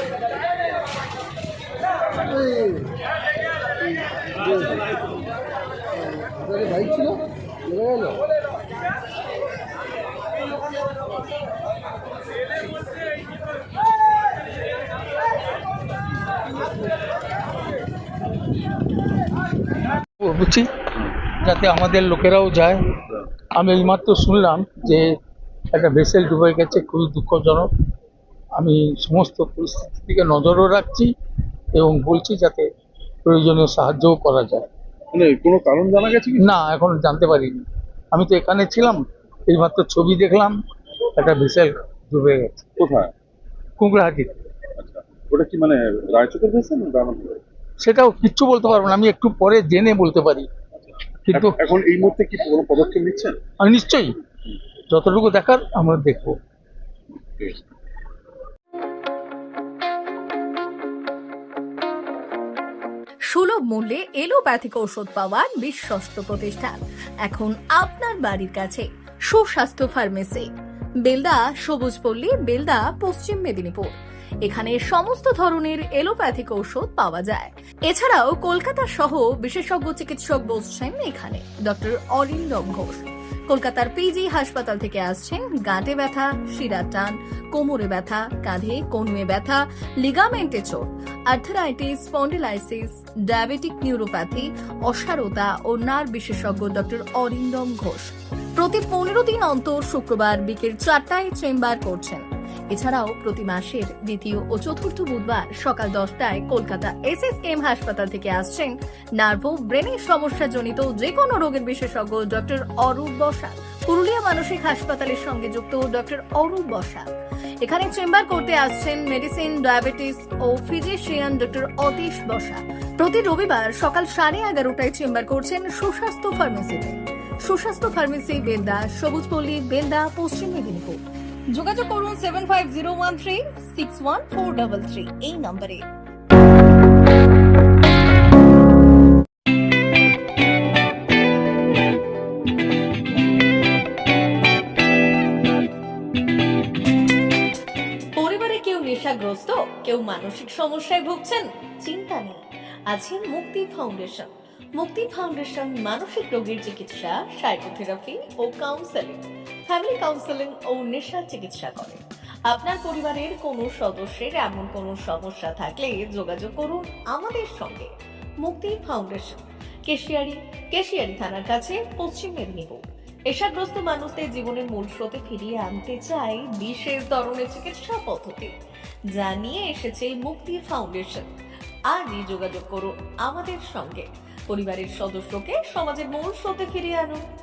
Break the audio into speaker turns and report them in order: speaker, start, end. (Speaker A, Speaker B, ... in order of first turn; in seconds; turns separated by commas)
Speaker A: 20.2-22.9, Speaker A: 23.5-25.1, Speaker A: 25.7-27.7, Speaker A: 28.6-31.1, Speaker A: 31.7-32.7, Speaker A: 33.2-34.7, Speaker B: 35.1-36.5, Speaker A: 36.4-40.5, Speaker A: 41.2-42.7, Speaker B: 42.8-43.1, Speaker A: 43.8-44.3, Speaker B: 44.8-47.4, Speaker A: 47.8-50.5, Speaker A: 51.3-51.6, Speaker B: 51.3-53.4, Speaker A: 53.6-54.1, Speaker A: 54.9-56.4, Speaker C: 63.3-70.5, Speaker C: 71.0-73.9, Speaker C: 74.4-117.1, Speaker C: 117.6-131.0, Speaker C: 131.5-135.8, Speaker C: 148.2-178.5, Speaker C: 179.1-181.3, Speaker C: 181.9-187.2